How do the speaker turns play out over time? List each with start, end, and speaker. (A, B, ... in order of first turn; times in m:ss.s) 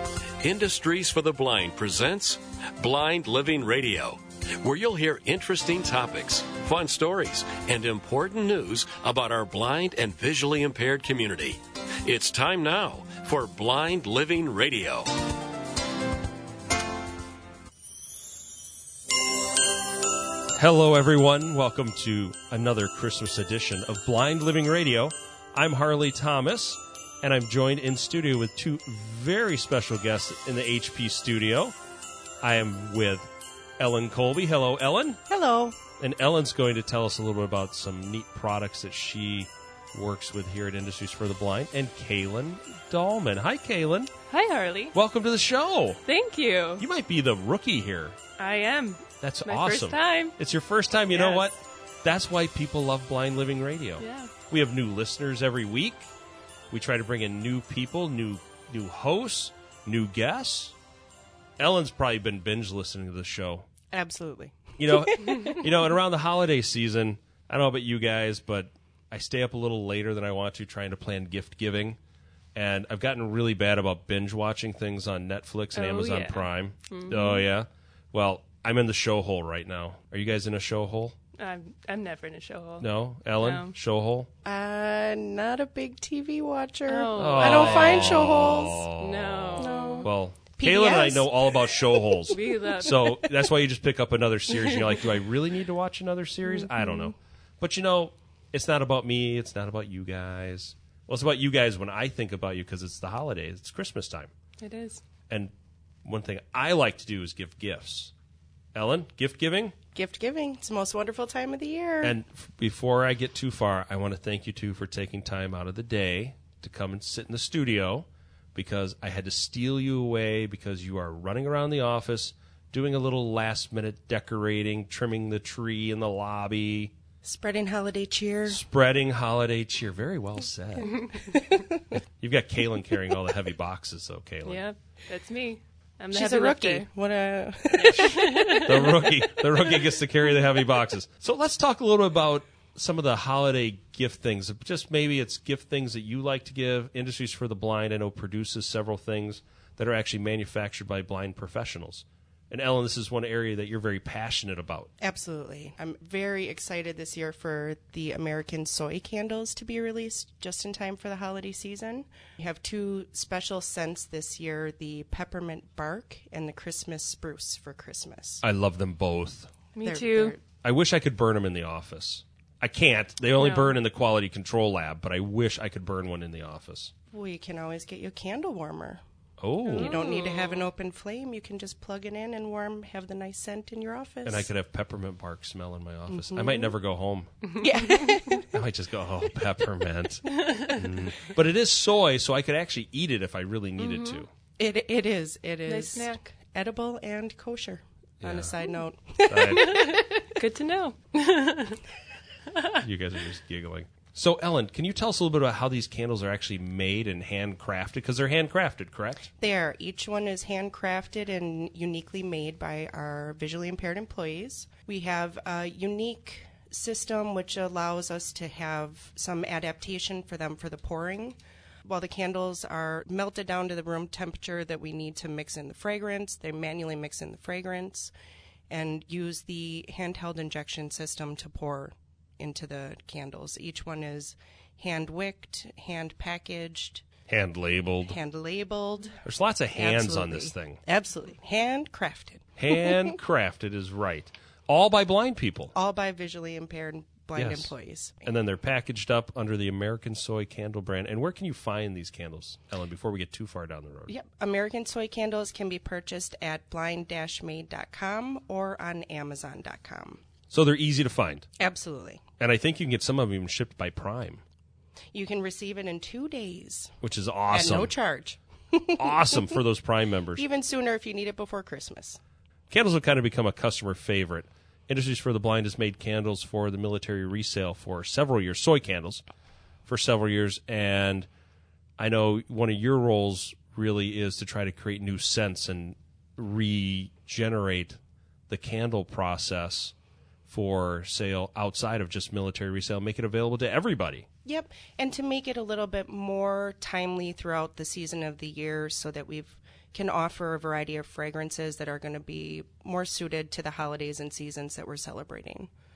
0:00.4-0:15.1 A
0:20.6-0:31.8 B
0:32.4-0:35.2 B
0:35.3-0:35.8 C
0:36.0-0:44.1 B
0:44.3-0:45.0 D
0:44.9-0:46.0 B
0:46.1-0:46.9 D
0:46.8-0:48.2 B
0:48.4-0:50.4 D
0:49.2-0:56.1 B
0:51.1-0:51.5 D
0:54.0-0:54.4 D
0:56.7-1:00.8 B
1:01.6-1:03.7 B
1:03.9-1:05.7 C
1:04.8-1:12.0 B
1:12.6-1:21.2 B
1:15.7-1:17.5 D
1:21.4-1:23.8 D
1:22.8-1:24.3 B
1:24.4-1:28.9 C
1:26.9-1:28.2 D
1:27.1-1:44.3 B
1:29.0-1:30.1 D
1:29.6-1:33.1 C
1:32.3-1:33.2 D
1:34.6-1:35.0 D
1:36.4-1:37.1 D
1:44.6-1:45.0 D
1:46.0-1:48.1 B
1:48.8-1:49.8 B
1:49.9-1:52.2 C
1:52.0-2:06.9 B
2:07.2-2:08.6 C
2:08.5-2:11.1 B
2:11.0-2:11.7 C
2:11.9-2:14.6 B
2:14.4-2:16.9 D
2:16.1-2:18.3 C
2:17.7-2:19.8 D
2:18.1-2:34.9 B
2:35.0-2:48.4 C
2:48.4-2:49.5 B
2:49.7-2:50.4 D
2:49.8-2:50.4 C
2:50.6-2:56.9 B
2:53.3-2:53.8 D
2:57.1-2:59.0 C
2:59.4-3:00.0 B
2:59.7-3:00.7 D
2:59.7-3:04.5 C
3:04.2-3:07.3 B
3:06.1-3:06.7 C
3:07.6-3:08.5 C
3:08.5-3:14.3 B
3:10.4-3:10.7 D
3:13.8-3:14.2 D
3:14.6-3:20.3 C
3:15.6-3:16.3 D
3:18.2-3:18.6 B
3:19.3-3:19.7 B
3:19.5-3:21.8 D
3:22.8-3:29.3 B
3:29.4-3:48.1 C
3:48.7-3:57.0 C
3:57.3-3:58.2 B
3:58.1-3:59.2 C
3:59.2-4:00.8 B
3:59.7-4:02.4 C
4:02.6-4:05.7 B
4:05.7-4:08.3 C
4:07.4-4:14.1 B
4:14.1-4:20.2 C
4:20.5-4:21.5 B
4:21.6-4:22.2 C
4:22.4-4:24.4 B
4:25.1-4:26.9 C
4:27.0-4:27.9 B
4:27.5-4:29.6 C
4:29.0-4:30.4 B
4:30.4-4:32.2 C
4:32.7-4:39.2 B
4:39.9-4:41.3 B
4:42.0-4:48.0 B
4:48.5-4:49.9 B
4:50.5-4:54.3 B
4:54.4-5:05.7 C